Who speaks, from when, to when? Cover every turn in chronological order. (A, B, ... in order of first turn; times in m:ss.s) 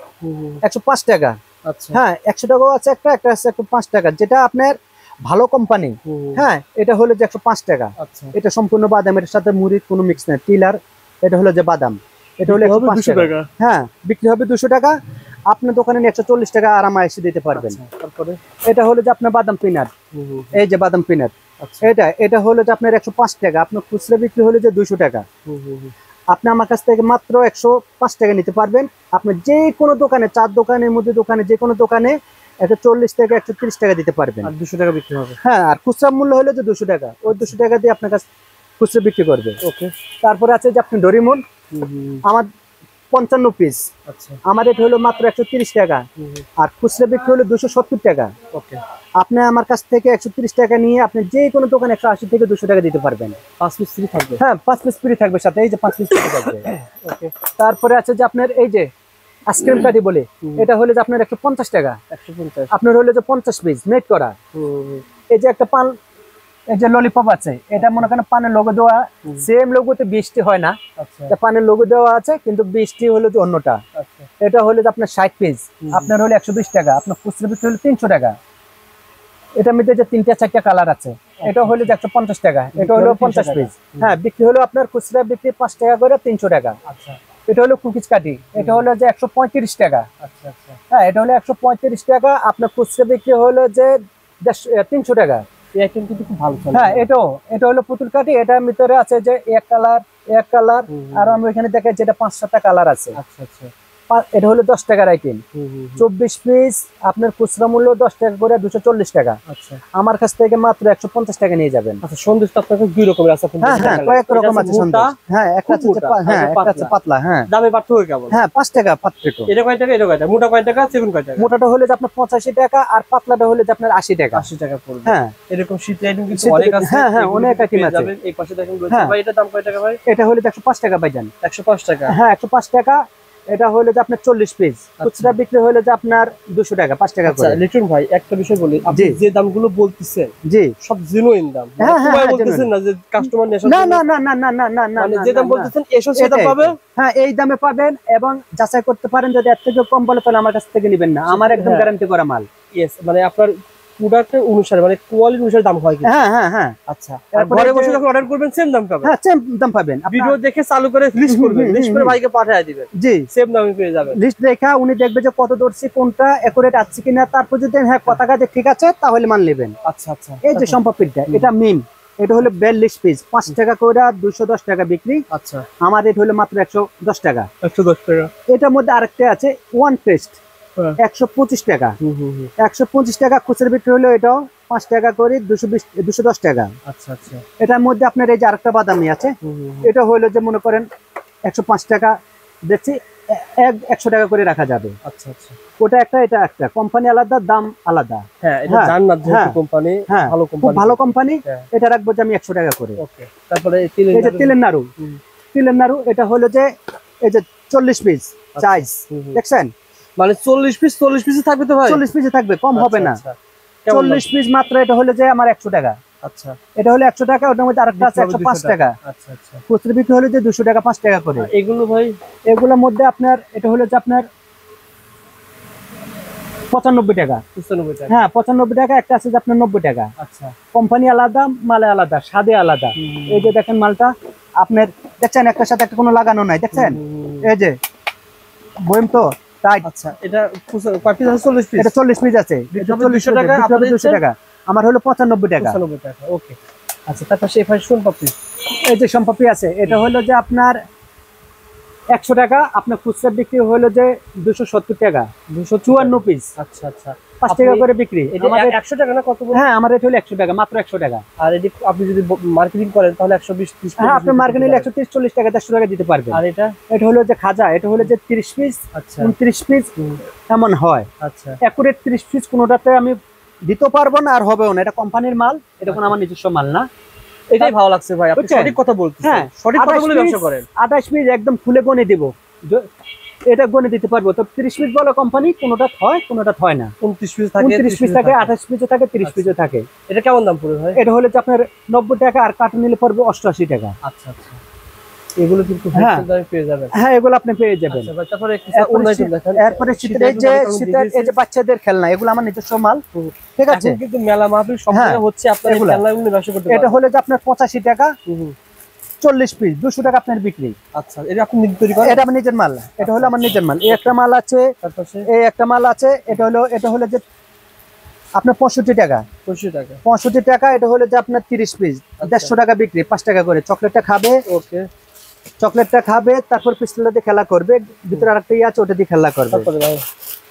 0:00.2-0:00.6 A
0:00.6-0:01.4 B
0:01.6-0:02.0 A
0:01.9-0:15.0 B
0:06.0-0:06.5 A
0:08.0-0:08.3 A
0:12.5-0:13.5 A
0:15.5-0:17.8 B
0:17.5-0:18.4 A
0:18.7-0:19.9 B
0:20.1-0:20.6 A
0:20.5-0:25.3 B
0:21.6-0:21.9 A
0:25.5-0:25.9 A
0:26.3-0:34.5 B
0:34.4-0:35.4 A
0:35.4-0:38.3 B
0:37.3-0:37.6 A
0:38.8-0:39.6 B
0:39.6-0:39.9 A
0:40.2-0:41.4 B
0:41.7-0:42.2 A
0:42.2-0:42.5 B
0:43.1-0:43.9 B
0:44.1-0:44.4 A
0:44.4-0:46.1 B
0:46.2-0:46.4 A
0:46.6-0:48.3 B
0:48.5-0:48.8 A
0:49.2-0:53.4 B
0:53.6-0:54.4 A
0:54.4-0:56.7 B
0:56.4-0:57.3 A
0:57.6-0:58.9 B
0:59.5-1:02.0 B
1:00.4-1:00.7 A
1:02.1-1:02.7 A
1:02.7-1:04.4 B
1:04.5-1:05.1 A
1:05.3-1:06.0 B
1:06.7-1:10.8 B
1:11.0-1:11.3 A
1:11.3-1:13.8 B
1:14.0-1:14.3 A
1:14.4-1:18.4 B
1:15.8-1:16.1 A
1:19.6-1:26.8 B
1:21.4-1:21.9 A
1:22.8-1:24.2 A
1:26.8-1:27.2 A
1:27.5-1:30.1 B
1:28.6-1:28.8 A
1:30.2-1:30.8 A
1:30.9-1:35.4 B
1:35.8-1:37.1 A
1:36.7-1:43.2 B
1:40.9-1:41.4 A
1:43.2-1:43.7 A
1:44.1-1:45.4 B
1:45.5-1:46.0 A
1:46.0-1:49.4 B
1:49.5-1:49.8 A
1:49.9-1:52.0 B
1:52.0-1:55.2 A
1:53.6-1:57.5 B
1:55.7-1:56.9 A
1:57.5-1:58.4 A
1:58.3-1:59.5 B
1:59.5-2:01.5 A
2:01.4-2:04.5 B
2:04.3-2:10.0 A
2:05.0-2:05.4 B
2:06.3-2:08.1 B
2:10.1-2:11.3 B
2:11.4-2:12.2 A
2:12.1-2:17.6 B
2:15.0-2:15.3 A
2:17.3-2:24.1 A
2:18.9-2:19.2 B
2:20.5-2:20.7 B
2:21.8-2:22.7 B
2:23.6-2:32.5 B
2:25.0-2:26.8 A
2:31.3-2:31.9 A
2:32.7-2:36.2 A
2:36.0-2:36.8 B
2:36.9-2:39.1 A
2:37.3-2:38.0 B
2:39.0-2:40.4 B
2:40.1-2:44.2 A
2:41.3-2:42.2 B
2:42.9-2:43.3 B
2:44.1-2:49.8 B
2:49.8-2:51.5 A
2:50.4-2:55.2 B
2:55.3-2:55.7 A
2:55.8-2:57.5 B
2:57.6-2:58.3 A
2:58.5-3:00.4 B
3:01.0-3:02.0 B
3:02.0-3:02.5 A
3:02.6-3:06.7 B
3:06.8-3:07.4 A
3:07.6-3:10.9 B
3:09.4-3:09.9 A
3:11.5-3:15.0 B
3:15.0-3:15.6 A
3:15.8-3:23.0 B
3:18.4-3:21.7 A
3:23.0-3:25.2 A
3:24.1-3:24.9 B
3:25.5-3:29.7 B
3:28.6-3:29.4 A
3:30.2-3:32.0 A
3:31.9-3:33.2 B
3:32.7-3:34.3 A
3:33.9-3:36.0 B
3:36.2-3:36.6 A
3:36.8-3:39.0 B
3:37.9-3:39.6 A
3:39.7-3:41.5 B
3:41.4-3:42.2 A
3:42.5-3:44.3 B
3:46.7-3:47.4 B
3:47.6-3:48.2 A
3:48.1-3:50.1 B
3:50.2-3:50.6 A
3:50.7-3:57.8 B
3:53.0-3:53.5 A
3:56.7-3:57.5 A
3:58.8-3:59.9 B
3:59.8-4:01.9 A
4:01.8-4:05.8 B
4:02.7-4:04.2 A
4:05.6-4:06.6 A
4:07.1-4:08.4 A
4:08.7-4:10.8 B
4:12.1-4:15.3 B
4:15.5-4:19.6 A
4:15.9-4:16.5 B
4:17.4-4:18.8 B
4:19.5-4:21.2 B
4:21.4-4:24.9 A
4:24.0-4:29.9 B
4:26.3-4:26.8 A
4:28.9-4:29.3 A
4:30.5-4:31.1 B
4:31.2-4:31.6 A
4:31.6-4:36.9 B
4:37.5-4:40.7 A
4:38.4-4:42.9 B
4:43.5-4:46.9 B
4:47.0-4:48.5 A
4:47.6-4:49.9 B
4:49.2-4:49.6 A
4:50.1-4:51.0 A
4:51.0-4:54.0 B
4:54.0-4:54.6 A
4:55.4-4:56.9 A
4:55.9-4:56.2 B
4:56.9-4:58.1 B
4:57.9-5:01.3 A
4:58.7-5:03.0 B
5:03.2-5:07.0 A
5:03.6-5:04.0 B
5:04.9-5:06.0 B
5:06.7-5:08.2 B
5:08.3-5:08.6 A
5:09.2-5:10.8 B
5:10.9-5:12.3 A
5:12.0-5:14.7 B
5:13.0-5:14.1 A
5:14.8-5:15.3 A
5:15.3-5:17.2 B
5:18.4-5:19.2 B
5:19.5-5:20.0 A
5:20.0-5:24.4 B
5:22.2-5:22.6 A
5:24.5-5:24.9 A
5:25.6-5:29.7 B
5:29.5-5:30.1 A